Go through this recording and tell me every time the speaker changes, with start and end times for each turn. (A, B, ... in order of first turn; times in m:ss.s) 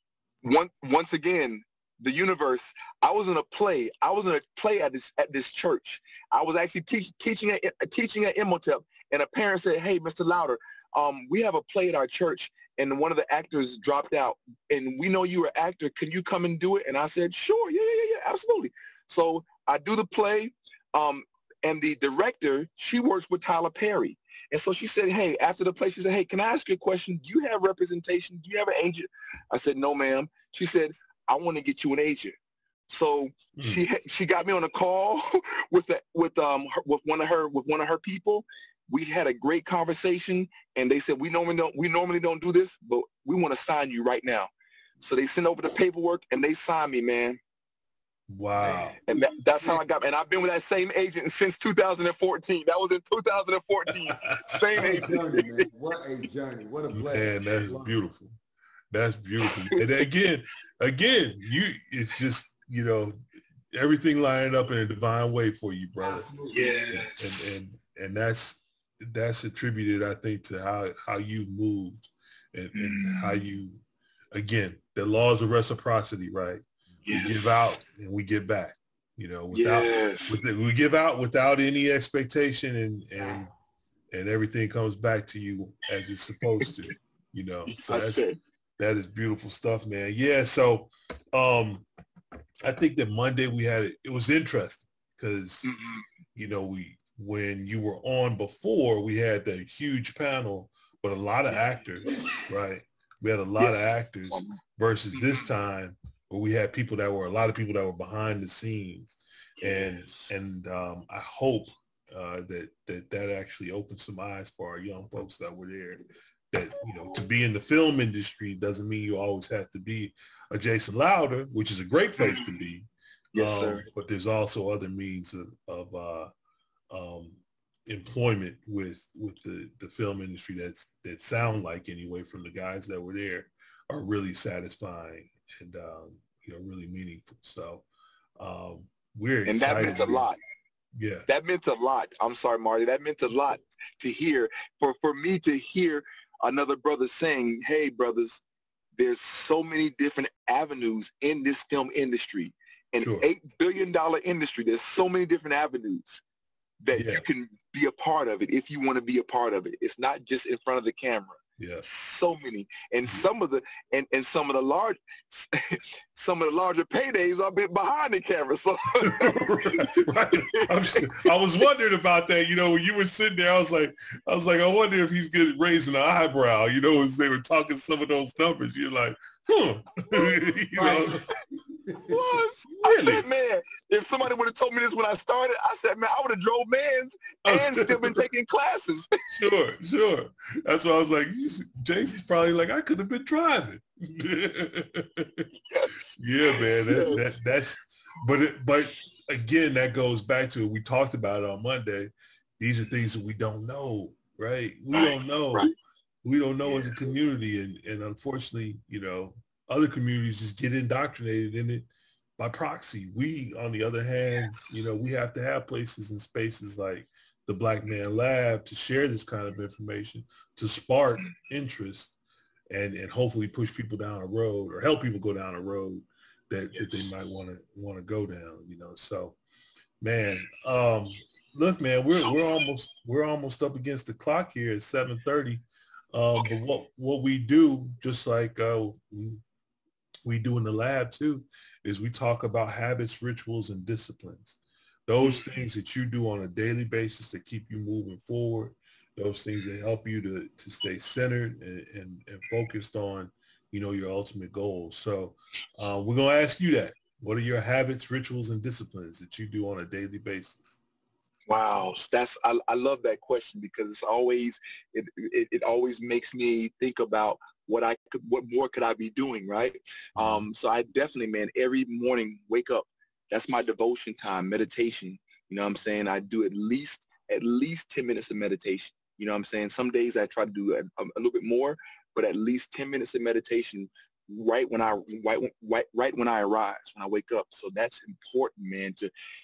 0:00.4-0:32.4 A
0:32.9-0:47.4 A
0:33.6-0:33.8 B
0:48.3-0:49.0 B
0:48.6-0:49.0 C
0:49.1-0:55.7 A
0:54.1-0:55.0 B
0:54.8-0:58.0 C
0:56.9-0:58.4 B
0:58.9-1:03.2 B
0:59.4-0:59.9 A
1:03.7-1:06.3 B
1:06.0-1:07.0 C
1:06.5-1:07.5 A
1:06.9-1:23.5 B
1:12.8-1:13.4 A
1:17.1-1:17.8 A
1:19.5-1:20.4 A
1:23.2-1:23.5 C
1:24.1-1:28.3 B
1:27.7-1:28.4 A
1:28.8-1:31.8 B
1:32.6-1:35.7 B
1:35.6-1:36.0 A
1:36.4-2:06.3 B
1:42.0-1:42.4 C
1:43.6-1:44.6 A
1:45.2-1:45.5 A
1:49.6-1:50.3 A
2:02.2-2:02.6 A
2:03.3-2:03.9 A
2:06.9-2:17.8 B
2:18.4-2:20.3 B
2:19.5-2:20.4 A
2:21.0-2:21.3 B
2:21.3-2:28.4 A
2:29.0-2:36.2 A
2:33.0-2:33.2 B
2:36.8-2:50.7 A
2:36.9-2:37.2 B
2:41.6-2:41.8 B
2:49.0-3:01.2 B
3:00.8-3:01.2 C
3:01.8-3:02.2 C
3:02.0-3:09.1 A
3:02.8-3:03.2 B
3:07.4-3:08.2 B
3:09.3-3:15.5 B
3:15.7-3:17.3 A
3:16.2-3:25.7 B
3:24.9-3:25.7 A
3:26.2-3:42.1 B
3:26.6-3:27.0 A
3:42.7-3:49.4 B
3:50.0-3:59.4 B
4:00.2-4:20.8 B
4:05.2-4:05.5 A
4:21.5-4:49.1 A
4:30.2-4:30.4 B